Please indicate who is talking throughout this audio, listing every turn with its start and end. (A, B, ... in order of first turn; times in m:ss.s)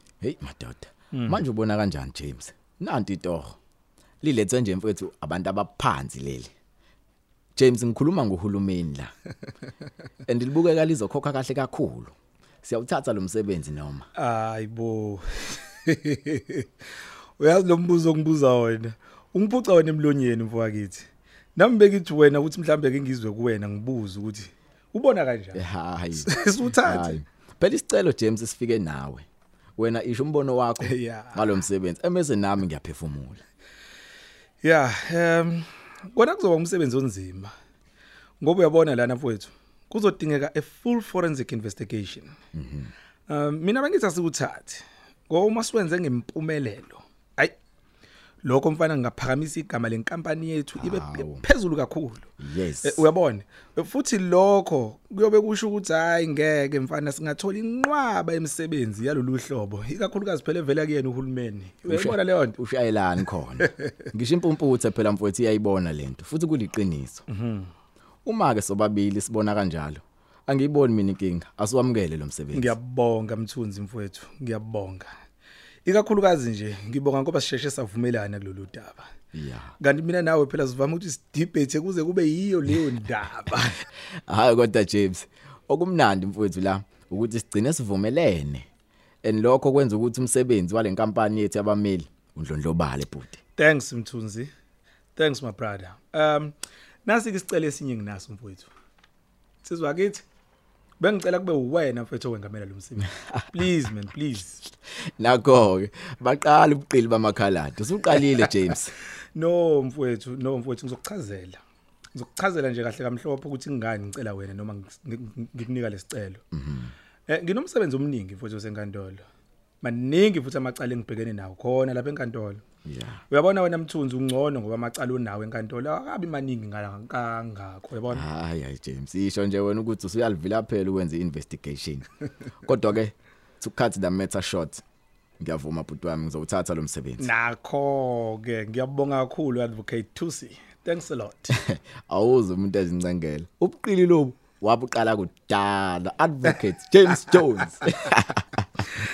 0:00.2-0:03.6 A
0:01.1-0:01.4 B
0:04.2-0:06.5 A
0:07.6-0:09.1 A
0:10.3-0:12.1 A
0:12.6-0:14.0 A
0:14.2-0:16.7 B
0:17.4-0:25.6 B
0:25.5-0:26.3 A
0:26.2-0:27.2 B
0:26.8-0:29.2 A
0:29.8-0:33.4 A
0:30.8-0:31.5 B
0:34.6-0:37.5 B
0:38.4-0:42.3 B
0:42.5-0:42.9 A
0:43.3-0:47.5 B
0:48.4-0:52.3 B
0:50.8-0:51.4 A
0:52.4-0:53.1 A
0:52.8-1:02.5 B
1:01.9-1:07.2 A
1:07.3-1:07.7 B
1:08.2-1:12.7 A
1:12.5-1:15.1 B
1:15.8-1:19.1 B
1:19.3-1:19.7 A
1:19.8-1:23.7 B
1:24.3-1:28.6 A
1:29.2-1:33.4 A
1:33.6-1:34.5 B
1:35.2-1:38.7 B
1:39.6-1:40.2 B
1:41.0-1:44.6 B
1:45.2-1:48.9 A
1:49.3-1:51.6 B
1:52.1-1:56.4 B
1:56.5-1:56.9 A
1:57.3-1:59.2 B
1:59.8-2:02.6 B
2:02.8-2:03.2 A
2:03.3-2:08.2 B
2:08.1-2:12.1 A
2:12.6-2:14.8 A
2:15.4-2:17.3 A
2:17.2-2:21.5 B
2:21.6-2:28.9 A